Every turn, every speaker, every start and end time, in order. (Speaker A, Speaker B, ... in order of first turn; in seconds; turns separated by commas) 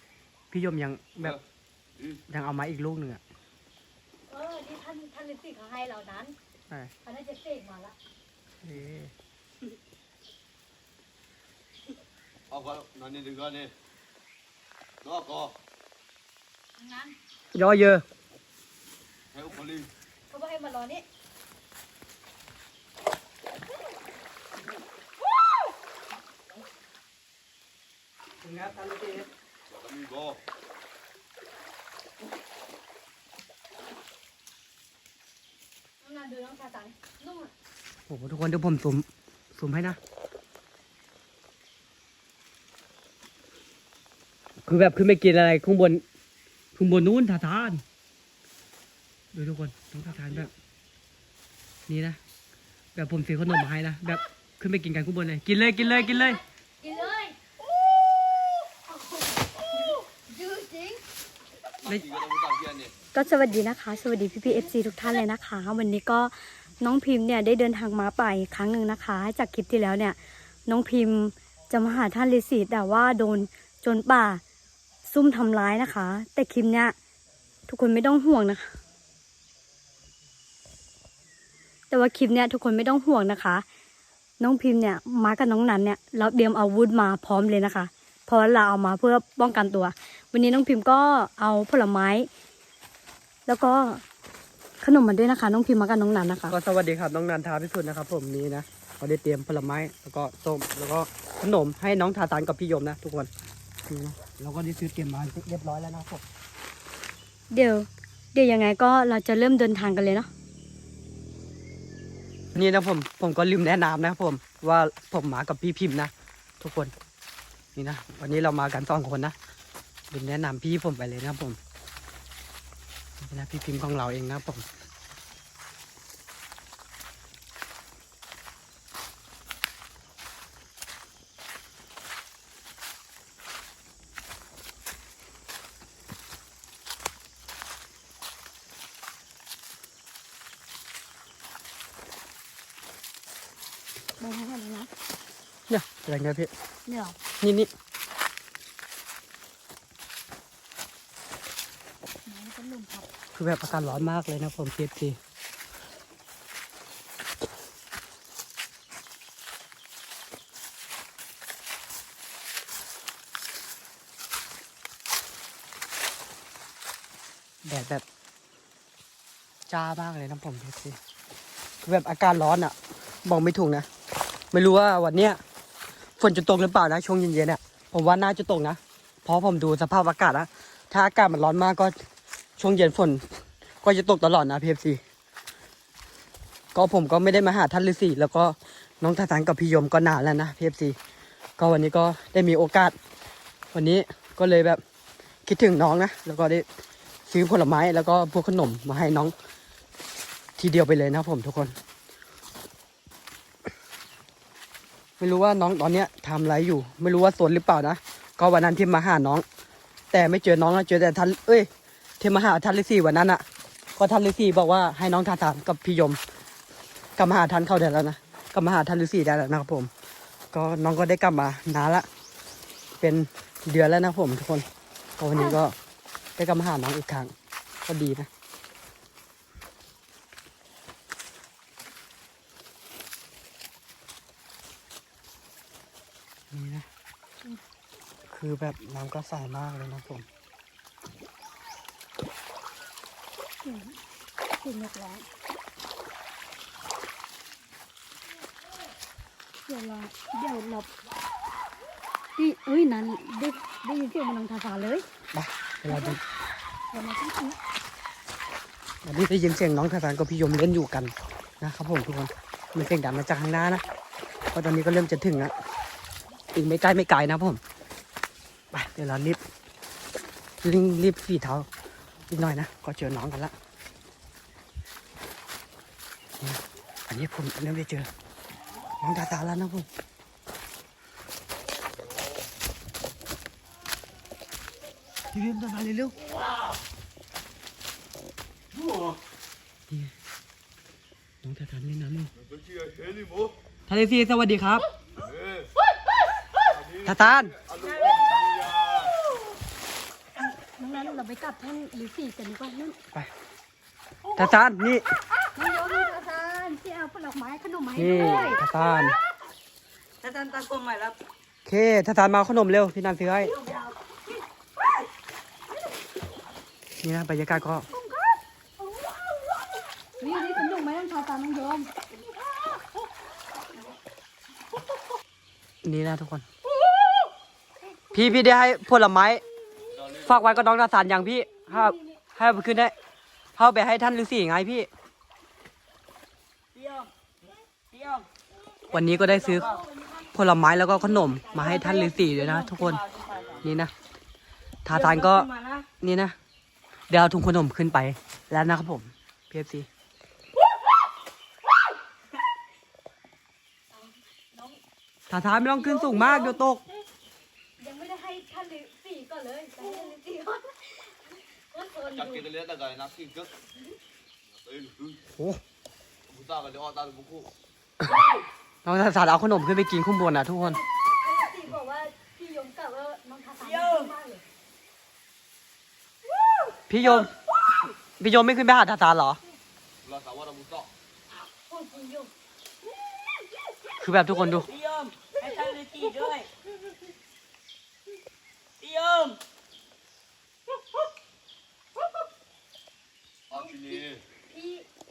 Speaker A: 0.5-1.4, Speaker B: 2.0-2.2, Speaker A: 2.3-3.2, Speaker C: 4.3-6.3, Speaker C: 7.0-8.0, Speaker A: 8.6-9.1, Speaker B: 12.5-13.7, Speaker B: 15.0-15.6, Speaker C: 16.8-17.2, Speaker A: 17.6-18.0, Speaker B: 19.3-19.9, Speaker C: 20.3-21.0, Speaker A: 28.4-29.2, Speaker B: 29.7-30.4, Speaker C: 36.0-37.5, Speaker A: 38.1-40.0, Speaker A: 44.6-46.0, Speaker A: 46.8-47.8, Speaker A: 49.3-50.5, Speaker A: 51.9-52.2, Speaker A: 53.0-56.4, Speaker C: 55.7-57.4, Speaker C: 58.5-61.0, Speaker B: 61.8-62.9, Speaker C: 63.1-74.4, Speaker C: 75.0-77.0, Speaker C: 77.7-78.7, Speaker C: 81.9-83.7, Speaker C: 84.4-92.3, Speaker C: 93.5-94.0, Speaker C: 94.8-96.5, Speaker A: 96.5-103.3, Speaker A: 103.9-106.2, Speaker C: 107.5-110.3, Speaker A: 112.5-116.9, Speaker A: 117.8-119.3, Speaker A: 120.1-121.6, Speaker A: 123.2-124.7, Speaker C: 144.2-144.9, Speaker A: 145.7-146.5, Speaker C: 146.9-147.2, Speaker A: 147.4-147.7, Speaker C: 152.3-153.1, Speaker A: 153.4-155.2, Speaker A: 167.7-168.0, Speaker A: 169.7-171.0, Speaker A: 171.9-173.9, Speaker A: 174.5-175.4, Speaker A: 176.2-181.9, Speaker A: 182.6-183.2, Speaker A: 183.8-185.0, Speaker A: 186.7-191.0, Speaker A: 191.6-192.9, Speaker A: 193.7-194.8, Speaker A: 195.5-196.7, Speaker A: 197.3-199.3, Speaker A: 200.6-201.8, Speaker A: 205.2-209.4, Speaker A: 210.1-211.7, Speaker A: 212.2-213.4, Speaker A: 214.0-216.2, Speaker A: 217.2-219.9, Speaker A: 220.5-222.1, Speaker A: 223.0-224.7, Speaker A: 225.2-225.8, Speaker C: 225.3-225.6, Speaker A: 226.4-227.3, Speaker A: 227.8-228.3, Speaker A: 236.5-236.9, Speaker A: 238.3-240.3, Speaker C: 243.6-244.0, Speaker C: 244.6-245.3, Speaker C: 249.7-250.9, Speaker C: 252.4-255.1, Speaker A: 255.3-256.2, Speaker C: 255.9-256.2, Speaker C: 256.9-257.6, Speaker A: 259.0-263.8, Speaker A: 264.5-265.5, Speaker A: 266.5-267.6, Speaker A: 268.7-269.4, Speaker A: 270.6-271.7, Speaker A: 272.3-273.5, Speaker A: 276.4-278.1, Speaker A: 279.0-279.9, Speaker A: 285.3-286.2, Speaker A: 291.4-292.3, Speaker B: 292.4-293.6, Speaker A: 293.9-294.9, Speaker B: 295.2-295.7, Speaker B: 296.6-299.1, Speaker A: 297.0-297.5, Speaker D: 297.8-298.4, Speaker C: 300.4-303.0, Speaker A: 304.4-305.1, Speaker C: 305.6-308.6, Speaker A: 308.0-309.2, Speaker D: 310.2-311.2, Speaker A: 311.7-313.5, Speaker D: 313.5-314.0, Speaker A: 317.0-317.9, Speaker C: 317.9-318.3, Speaker C: 320.2-321.9, Speaker D: 322.2-322.8, Speaker A: 325.8-326.4, Speaker A: 328.1-329.4, Speaker B: 329.9-330.7, Speaker A: 330.2-332.9, Speaker C: 331.6-332.3, Speaker A: 333.6-334.9, Speaker D: 336.8-337.1, Speaker D: 337.9-338.3, Speaker A: 338.9-339.7, Speaker C: 338.9-341.9, Speaker D: 339.5-339.9, Speaker A: 340.3-343.0, Speaker D: 341.6-343.7, Speaker B: 343.3-343.6, Speaker A: 343.6-343.9, Speaker A: 344.9-345.5, Speaker D: 344.9-345.9, Speaker A: 346.0-346.4, Speaker A: 347.1-349.9, Speaker C: 353.9-354.8, Speaker A: 355.3-356.8, Speaker C: 355.7-357.0, Speaker C: 357.8-362.4, Speaker B: 362.1-363.5, Speaker B: 364.5-365.2, Speaker A: 365.4-365.6, Speaker B: 366.3-367.5, Speaker C: 368.1-368.4, Speaker A: 368.9-370.8, Speaker C: 370.6-374.4, Speaker D: 373.6-374.1, Speaker A: 376.9-377.3, Speaker A: 378.2-379.4, Speaker B: 380.0-380.9, Speaker C: 381.7-382.3, Speaker A: 384.0-384.7, Speaker D: 384.5-386.5, Speaker D: 388.8-389.4, Speaker B: 393.5-394.2, Speaker C: 393.5-394.9